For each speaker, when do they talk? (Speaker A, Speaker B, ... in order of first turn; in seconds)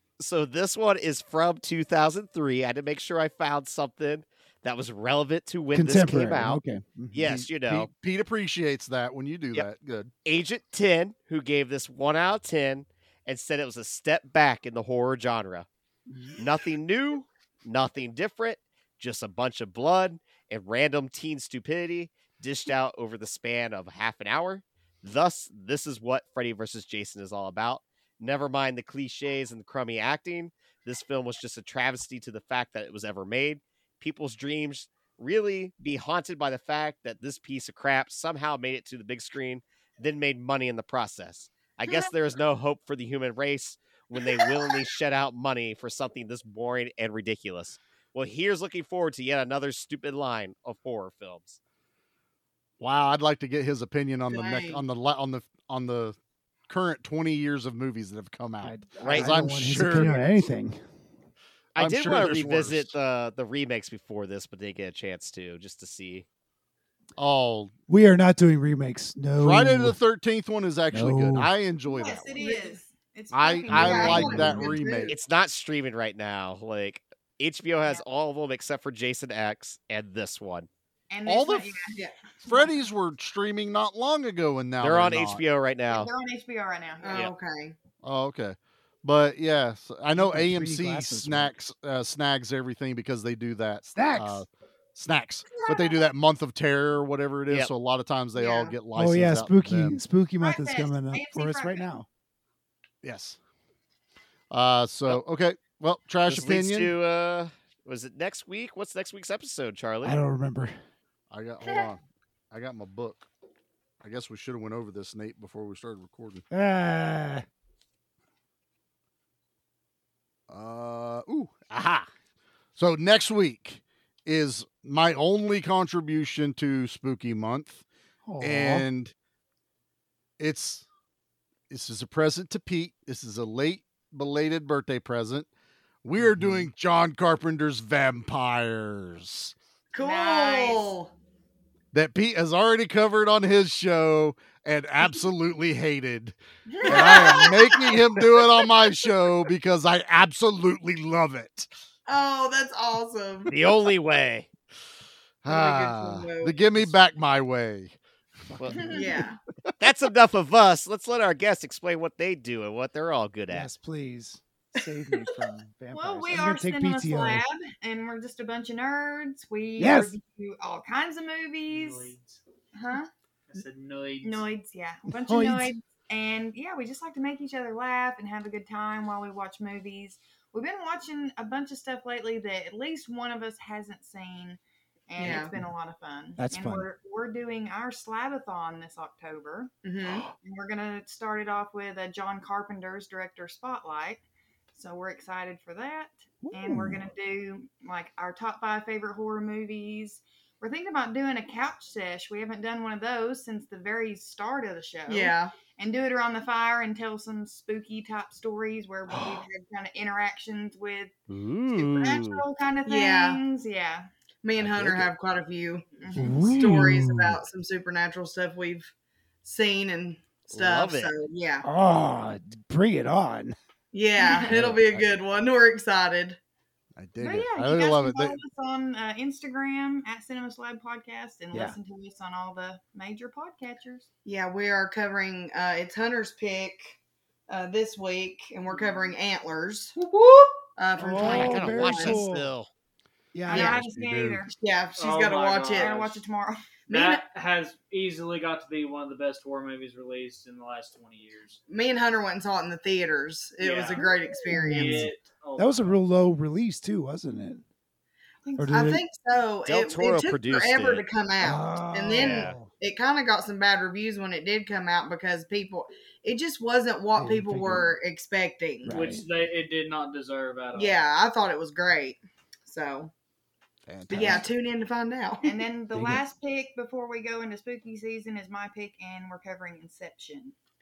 Speaker A: 0.2-6.6, 7.1-7.9, 10.2-15.7, 16.4-51.6, 59.0-59.3, 61.8-66.2, 75.1-80.7, 84.8-86.1, 106.3-110.2, 153.5-154.5, 159.8-163.7, 211.3-212.4, 220.5-221.1, 241.2-242.7, 259.6-261.0, 262.1-262.6
Speaker B: 5.7-7.2, 16.1-16.4, 58.6-60.8, 67.9-70.0, 70.9-71.5, 74.1-74.4, 90.2-91.5, 93.9-94.5, 99.0-102.1, 110.0-110.8, 116.5-117.5, 128.2-128.9, 136.2-136.7, 163.5-167.4, 169.8-170.2, 175.1-175.7, 185.2-185.7, 186.4-186.9, 196.4-197.0, 216.2-217.4, 221.6-223.6, 241.0-242.5, 243.3-243.8, 254.5-257.6, 258.6-259.0, 261.4-262.7, 267.1-268.0, 268.8-269.2, 274.1-274.4, 275.9-276.2
Speaker C: 7.2-10.1, 52.8-56.2, 56.7-60.2, 61.8-62.9, 67.2-67.7, 69.4-72.3, 73.3-75.2, 81.3-81.7, 82.4-85.4, 88.0-100.0, 103.0-103.4, 104.5-106.9, 111.3-113.3, 114.0-116.4, 120.5-122.1, 122.8-127.8, 128.4-129.1, 130.4-130.8, 131.7-135.5, 136.0-139.6, 141.9-151.7, 155.4-158.0, 214.6-215.1, 224.5-225.1, 227.0-228.4, 243.6-244.5, 273.9-274.5
Speaker D: 54.3-54.9, 72.4-72.8, 73.7-75.1, 87.0-87.8, 98.3-98.8, 139.9-141.1, 146.8-148.2, 152.1-153.5, 155.5-156.9, 158.8-159.4, 185.2-185.6, 189.8-190.3, 205.1-205.6, 212.8-213.4, 214.4-218.9, 219.4-221.7, 223.9-226.4, 234.2-237.0, 237.5-240.0, 240.8-242.2, 243.5-243.8, 244.6-245.9, 246.9-247.2, 251.7-255.1, 258.7-269.0, 270.7-273.1, 274.1-275.6
Speaker E: 71.9-74.6, 81.1-82.0, 85.9-87.3, 95.5-96.0, 100.4-101.9, 140.0-140.9, 146.9-147.5, 165.9-172.1, 172.7-173.1, 174.2-189.7, 190.4-194.2, 194.7-211.1, 211.7-214.1, 216.0-216.7, 224.2-224.6, 227.2-234.1, 238.7-239.1, 243.5-244.5, 245.7-246.6, 258.4-258.9, 275.4-280.6
Speaker F: 171.7-172.4, 173.5-174.5, 245.0-246.2, 246.9-251.6, 253.6-254.0, 254.7-256.0, 268.9-271.1